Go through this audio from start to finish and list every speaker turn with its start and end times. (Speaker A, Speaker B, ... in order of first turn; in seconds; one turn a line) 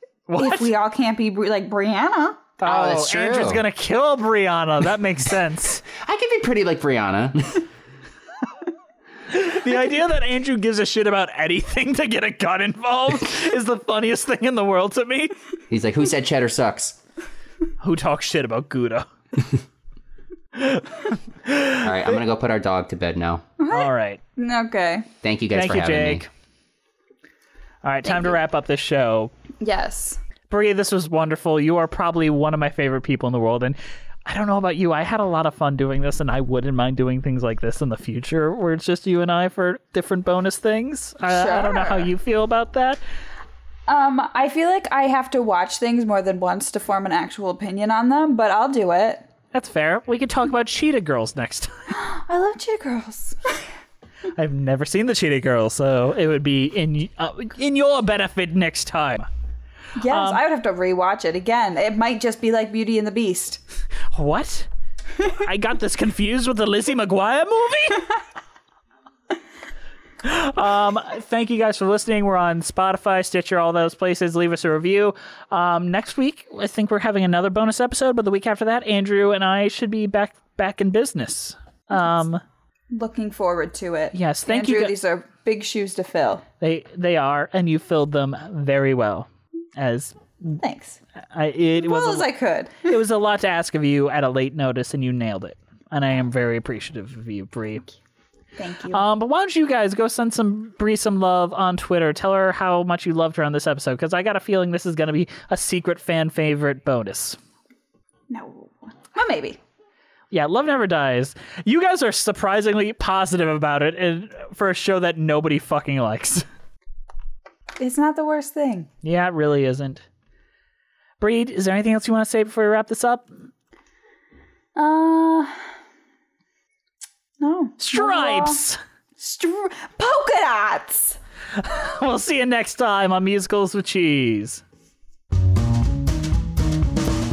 Speaker A: 0.3-0.7
Speaker B: 0.4-2.5
Speaker A: 2.6-5.8
Speaker C: 2.6-3.6
Speaker C: 5.9-7.7
Speaker A: 9.3-15.3
Speaker C: 15.7-17.0
Speaker A: 17.8-19.1
Speaker A: 20.6-21.9
Speaker C: 21.8-23.4
Speaker B: 23.6-25.1
Speaker A: 23.7-24.2
Speaker C: 25.2-26.3
Speaker A: 25.5-26.3
Speaker A: 27.8-29.3
Speaker B: 28.1-28.4
Speaker B: 29.6-30.2
Speaker A: 30.5-43.0
Speaker B: 41.3-42.1
Speaker B: 43.9-49.3
Speaker A: 49.5-51.9
Speaker B: 51.9-53.7
Speaker A: 54.4-59.3
Speaker B: 60.0-63.6
Speaker A: 60.1-60.4
Speaker A: 64.1-64.7
Speaker A: 65.2-68.1
Speaker A: 70.2-82.4
Speaker B: 82.9-86.4
Speaker A: 84.1-85.0
Speaker A: 86.6-90.6
Speaker B: 90.6-91.0
Speaker A: 91.3-92.3
Speaker B: 91.8-93.0
Speaker A: 92.8-97.8
Speaker B: 98.6-99.0
Speaker A: 98.9-107.4
Speaker B: 108.3-109.6
Speaker A: 110.3-116.5
Speaker B: 117.8-118.9
Speaker A: 119.0-120.0
Speaker A: 121.2-123.4
Speaker B: 124.8-125.6
Speaker B: 127.4-128.6
Speaker A: 127.8-128.8
Speaker B: 129.2-131.2
Speaker A: 131.6-134.6